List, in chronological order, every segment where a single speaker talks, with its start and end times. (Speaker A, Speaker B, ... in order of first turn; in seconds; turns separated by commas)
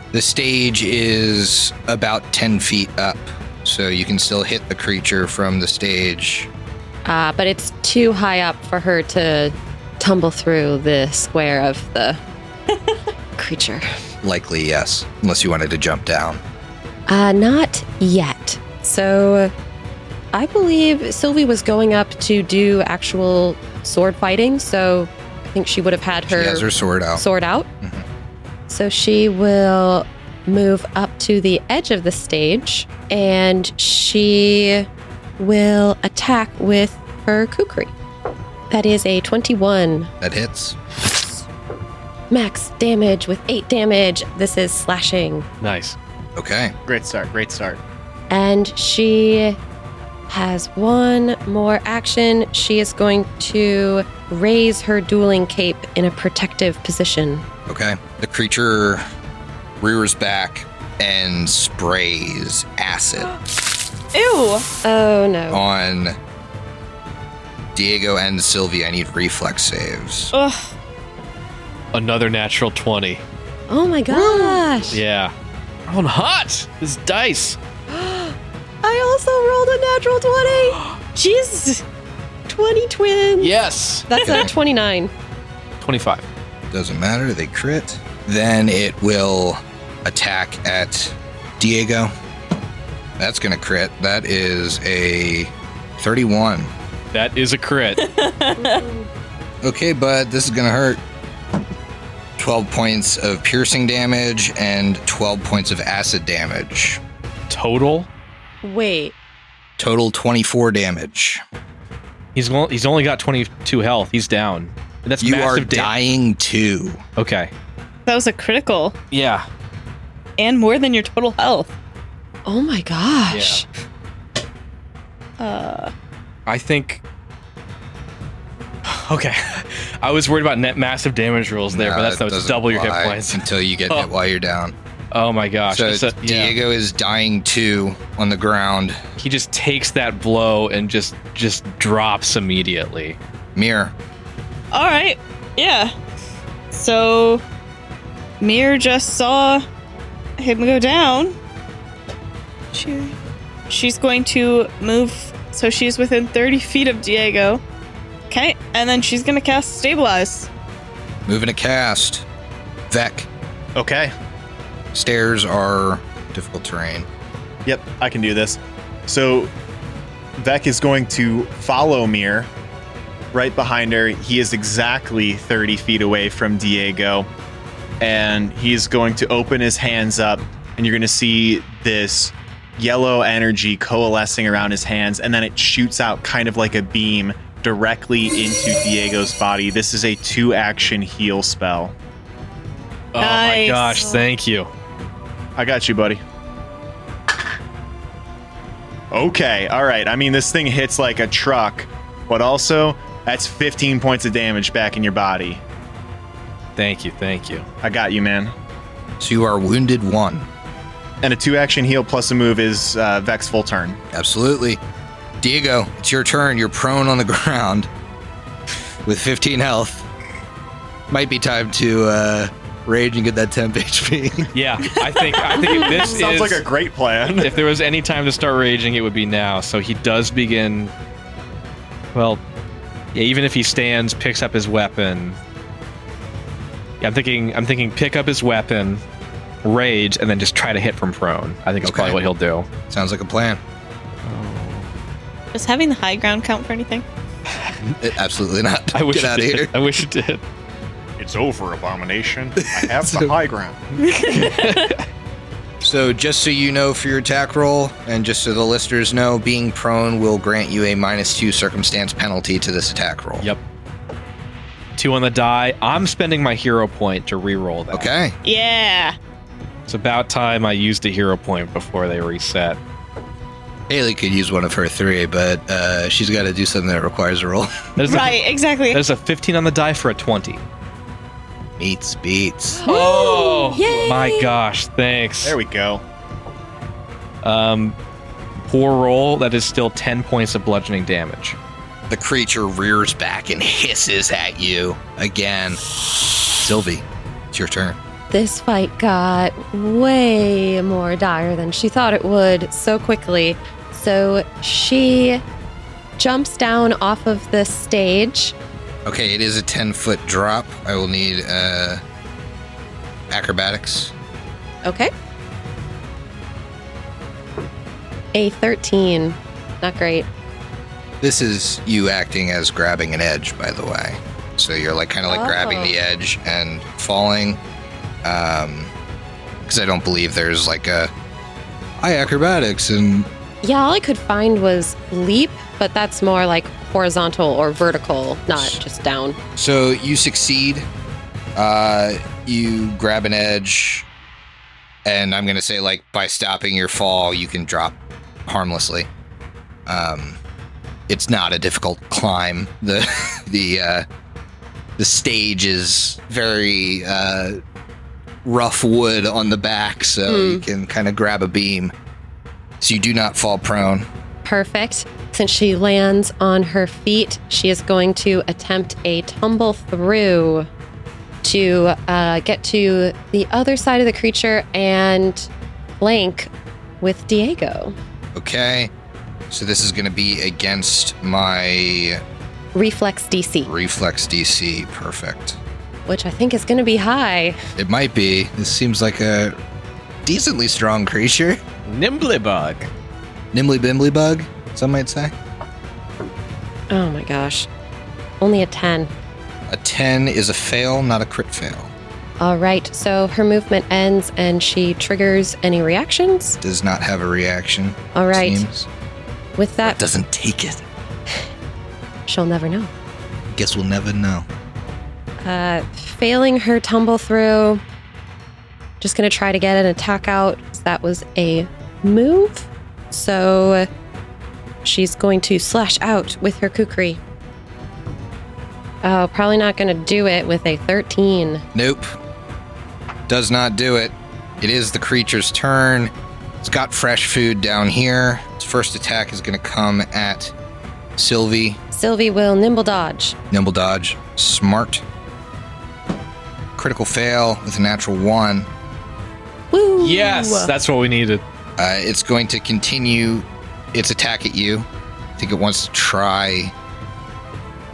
Speaker A: 0.1-6.5, Speaker B: 7.0-12.2, Speaker B: 13.4-13.8, Speaker A: 14.2-16.4, Speaker B: 17.1-19.5, Speaker B: 20.3-27.7, Speaker A: 26.3-27.2, Speaker B: 28.7-34.9, Speaker B: 35.4-37.9, Speaker B: 38.7-40.1, Speaker A: 40.2-40.8, Speaker B: 42.3-45.5, Speaker C: 45.6-46.0, Speaker A: 46.4-46.7, Speaker D: 46.9-47.8, Speaker B: 48.3-49.6, Speaker B: 50.3-57.4, Speaker A: 57.7-59.0, Speaker A: 59.8-63.3, Speaker E: 64.1-64.7, Speaker B: 64.8-65.6, Speaker A: 65.5-66.2, Speaker A: 67.7-70.3, Speaker E: 70.3-70.7, Speaker C: 71.9-73.2, Speaker B: 73.7-75.0, Speaker E: 74.1-74.6, Speaker C: 74.9-75.3, Speaker C: 75.9-77.6, Speaker B: 77.9-80.8, Speaker E: 81.1-81.8, Speaker B: 82.5-85.1, Speaker C: 83.4-84.4, Speaker C: 85.8-86.2, Speaker A: 86.7-92.1, Speaker A: 93.2-96.7, Speaker C: 97.1-98.0, Speaker E: 98.0-98.8, Speaker B: 98.6-99.1, Speaker A: 99.6-101.0, Speaker A: 102.4-107.0, Speaker C: 107.5-108.1, Speaker B: 108.6-109.1, Speaker A: 109.8-111.4, Speaker C: 112.3-115.9, Speaker A: 115.2-117.0, Speaker C: 117.2-117.5, Speaker E: 118.0-119.0, Speaker C: 119.1-119.5, Speaker E: 120.4-121.7, Speaker B: 122.5-123.6, Speaker C: 123.3-123.6, Speaker E: 125.4-125.9, Speaker C: 126.5-127.0, Speaker C: 128.8-134.1, Speaker A: 131.7-134.7, Speaker C: 135.1-136.5, Speaker A: 135.7-139.0, Speaker C: 139.2-143.2, Speaker A: 143.5-143.9, Speaker E: 144.7-145.9, Speaker E: 146.7-147.4, Speaker E: 148.4-149.6, Speaker E: 150.4-151.3, Speaker E: 152.7-153.1, Speaker E: 153.7-157.6, Speaker E: 158.3-160.5, Speaker A: 161.3-162.2, Speaker A: 162.9-163.3, Speaker D: 163.8-164.1, Speaker A: 164.9-167.1, Speaker D: 167.7-169.5, Speaker D: 170.4-172.5, Speaker D: 173.3-177.3, Speaker D: 178.0-191.9, Speaker C: 193.1-194.7, Speaker E: 193.2-194.2, Speaker D: 195.6-196.2, Speaker D: 199.1-205.6, Speaker C: 206.8-207.6, Speaker D: 207.8-208.5, Speaker A: 209.2-210.5, Speaker D: 211.2-214.0, Speaker A: 214.1-214.8, Speaker A: 215.4-217.9, Speaker A: 219.1-220.1, Speaker A: 221.1-224.5, Speaker C: 224.5-226.6, Speaker E: 225.3-226.0, Speaker D: 225.8-227.6, Speaker C: 227.3-230.9, Speaker C: 232.1-232.4, Speaker C: 233.1-235.4, Speaker C: 237.0-239.0, Speaker C: 239.6-242.7, Speaker A: 241.8-242.2, Speaker A: 242.9-243.6, Speaker C: 244.2-244.9, Speaker E: 245.5-247.1, Speaker C: 247.5-248.0, Speaker A: 248.0-249.7, Speaker C: 248.9-250.4, Speaker D: 251.2-253.9, Speaker A: 252.7-253.3, Speaker E: 254.0-254.9, Speaker C: 254.0-255.0, Speaker A: 255.8-263.5, Speaker C: 264.9-268.1, Speaker A: 267.9-268.4, Speaker E: 268.4-269.1, Speaker C: 269.9-272.8, Speaker A: 273.9-277.8, Speaker C: 278.0-278.4, Speaker E: 278.1-279.0, Speaker C: 278.9-280.6, Speaker A: 281.8-282.8, Speaker B: 282.8-284.6, Speaker C: 282.8-285.6, Speaker D: 285.4-286.0, Speaker C: 287.4-287.9, Speaker C: 288.6-291.6, Speaker A: 292.1-295.8, Speaker A: 296.5-298.0, Speaker B: 298.3-305.4, Speaker B: 306.2-308.5, Speaker A: 309.1-312.0, Speaker A: 313.3-314.1, Speaker B: 314.8-315.1, Speaker B: 318.3-320.3, Speaker A: 321.2-327.6, Speaker B: 325.3-325.9, Speaker A: 328.2-328.9, Speaker A: 329.6-331.1, Speaker A: 332.0-333.3, Speaker B: 333.6-339.4, Speaker A: 338.5-338.8, Speaker A: 339.6-340.9, Speaker A: 341.6-344.1, Speaker A: 345.0-349.1, Speaker A: 349.9-350.4, Speaker A: 351.1-354.1, Speaker A: 355.0-357.6, Speaker A: 358.4-361.9, Speaker B: 360.3-360.6, Speaker A: 362.8-364.1, Speaker B: 364.4-370.7, Speaker B: 371.4-378.0, Speaker A: 378.3-378.9, Speaker A: 379.5-382.2, Speaker B: 382.7-383.7, Speaker A: 383.6-385.6, Speaker B: 386.1-387.6, Speaker A: 387.8-389.6, Speaker A: 390.2-391.6, Speaker C: 391.9-392.9, Speaker A: 393.5-395.3, Speaker B: 396.9-397.7, Speaker B: 398.4-399.1, Speaker A: 399.7-401.9, Speaker B: 402.4-406.6, Speaker A: 406.6-408.9, Speaker B: 408.1-408.7, Speaker B: 409.6-410.0, Speaker A: 409.8-410.8, Speaker B: 412.3-412.9, Speaker A: 413.5-414.5, Speaker B: 415.4-417.8, Speaker B: 419.0-423.9, Speaker B: 424.8-427.2, Speaker B: 429.0-431.6, Speaker A: 431.7-432.1, Speaker A: 433.3-440.5, Speaker A: 441.2-441.8, Speaker B: 441.9-443.4, Speaker A: 443.5-445.0, Speaker A: 446.8-448.7, Speaker B: 449.7-450.7, Speaker C: 450.0-451.4, Speaker A: 451.8-456.7